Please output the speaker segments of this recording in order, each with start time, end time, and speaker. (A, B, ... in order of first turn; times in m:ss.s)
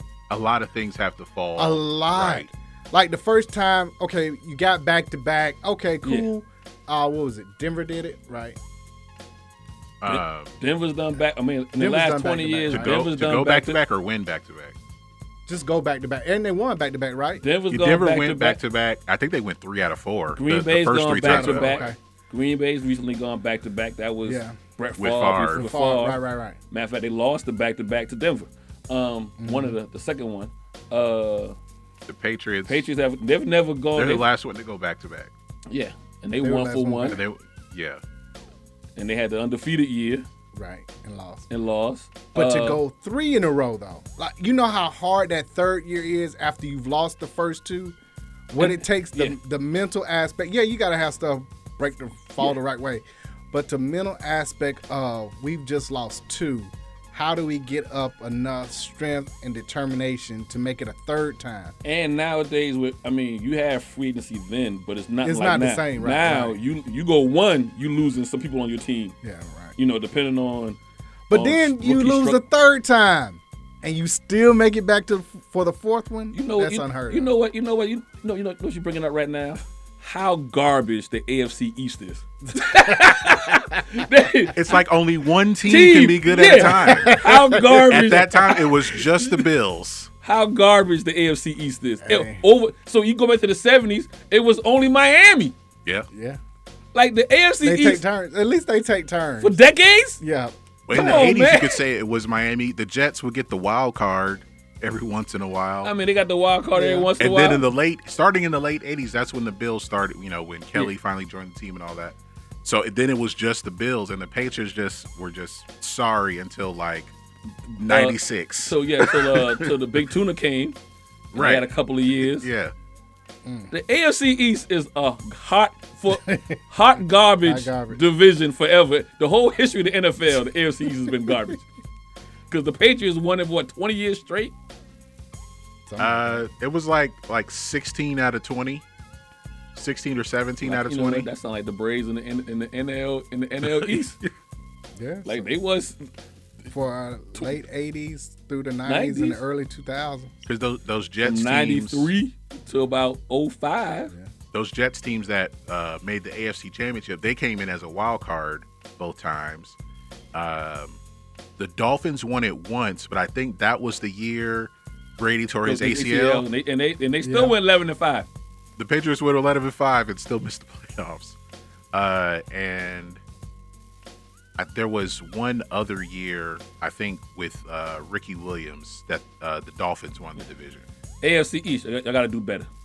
0:00.3-0:02.5 A
0:01.6-0:08.6 B
0:06.0-0:06.3 C
0:10.0-0:10.5 A
0:10.0-0:13.8 C
0:11.7-0:13.0 B
0:12.7-0:14.8 A
0:15.5-0:17.4 B
0:17.4-0:18.6 C
0:17.7-0:21.8 A
0:20.4-0:26.2 C
0:21.2-0:22.0 B
0:24.2-0:24.6 B
0:25.0-0:25.7 A
0:25.5-0:26.6 B
0:26.7-0:31.6 C
0:29.4-0:29.8 B
0:32.1-0:32.9 A
0:32.6-0:34.3 C
0:33.9-0:35.3 A
0:35.7-0:37.2 C
0:36.4-0:37.2 B
0:37.1-0:38.0 A
0:39.0-0:40.3 C
0:40.5-0:41.5 B
0:41.5-0:42.8 C
0:42.3-0:48.0 B
0:48.5-1:01.7 B
0:48.6-0:49.4 C
1:01.8-1:09.1 C
1:05.2-1:06.6 B
1:09.2-1:09.8 B
1:09.8-1:10.8 C
1:11.3-1:17.3 B
1:11.3-1:12.4 C
1:16.3-1:24.6 C
1:22.6-1:23.6 B
1:24.5-1:27.2 A
1:25.6-1:29.4 C
1:26.4-1:28.7 B
1:27.9-1:30.1 A
1:30.2-1:35.5 C
1:32.0-1:32.4 B
1:36.1-1:36.4 B
1:36.9-1:38.0 C
1:37.6-1:39.6 B
1:39.4-1:40.2 C
1:40.2-1:41.2 B
1:40.9-1:45.9 A
1:40.9-1:41.8 C
1:45.8-1:47.6 C
1:46.7-1:47.1 B
1:47.2-1:57.1 A
1:57.7-2:00.8 C
1:57.8-1:59.7 A
2:01.3-2:02.7 A
2:01.3-2:02.5 C
2:03.4-2:03.7 B
2:03.7-2:11.6 C
2:06.1-2:06.6 B
2:07.4-2:08.0 B
2:12.5-2:14.5 C
2:15.9-2:16.4 B
2:16.0-2:18.8 A
2:19.7-2:21.3 A
2:20.6-2:24.2 C
2:23.6-2:24.2 A
2:25.0-2:25.5 B
2:25.2-2:26.0 C
2:26.7-2:30.4 B
2:28.8-2:29.4 C
2:30.4-2:32.1 A
2:31.2-2:34.1 C
2:34.5-2:39.8 A
2:40.3-2:41.0 A
2:41.6-2:46.4 A
2:45.6-2:48.3 C
2:47.2-2:47.6 B
2:48.8-2:51.4 A
2:51.9-2:53.2 A
2:54.6-3:00.8 A
3:01.2-3:02.7 C